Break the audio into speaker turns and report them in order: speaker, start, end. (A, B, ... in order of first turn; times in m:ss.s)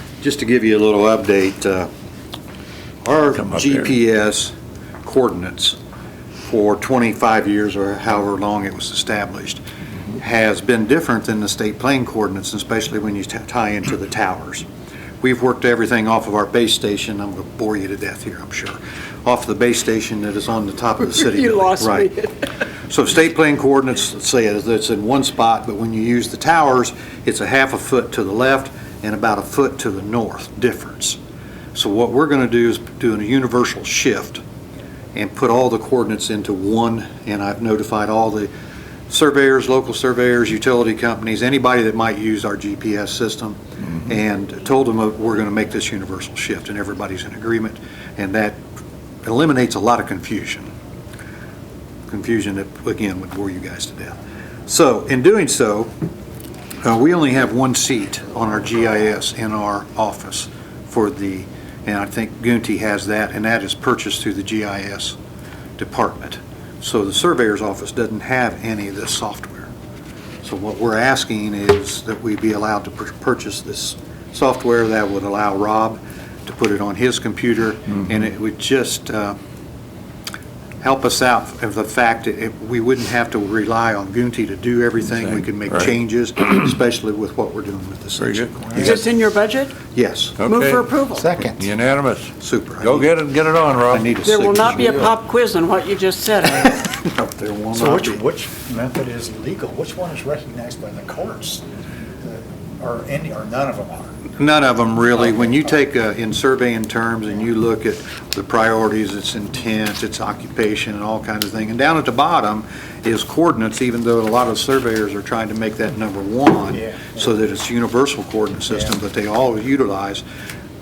0:00.2-0:01.9 A
0:03.0-0:05.8 A
0:03.3-0:04.0 B
0:06.4-0:09.6 A
0:10.1-0:14.6 A
0:15.2-0:22.1 A
0:21.0-0:22.6 C
0:22.9-0:31.2 A
0:31.8-0:34.4 A
0:35.1-0:38.5 A
0:39.1-0:48.6 A
0:49.2-0:50.7 A
0:52.1-0:55.9 A
0:56.8-1:05.2 A
1:05.8-1:09.7 A
1:10.4-1:19.4 A
1:20.8-1:29.1 A
1:25.2-1:25.9 B
1:28.2-1:28.6 B
1:28.8-1:29.8 C
1:29.9-1:30.4 A
1:30.4-1:30.8 B
1:30.5-1:31.3 C
1:31.2-1:31.6 D
1:31.6-1:34.1 B
1:32.4-1:33.1 A
1:33.9-1:35.2 A
1:34.2-1:36.8 C
1:36.6-1:38.2 A
1:37.7-1:41.7 D
1:42.2-1:44.2 D
1:44.4-2:00.2 A
1:56.7-1:57.2 D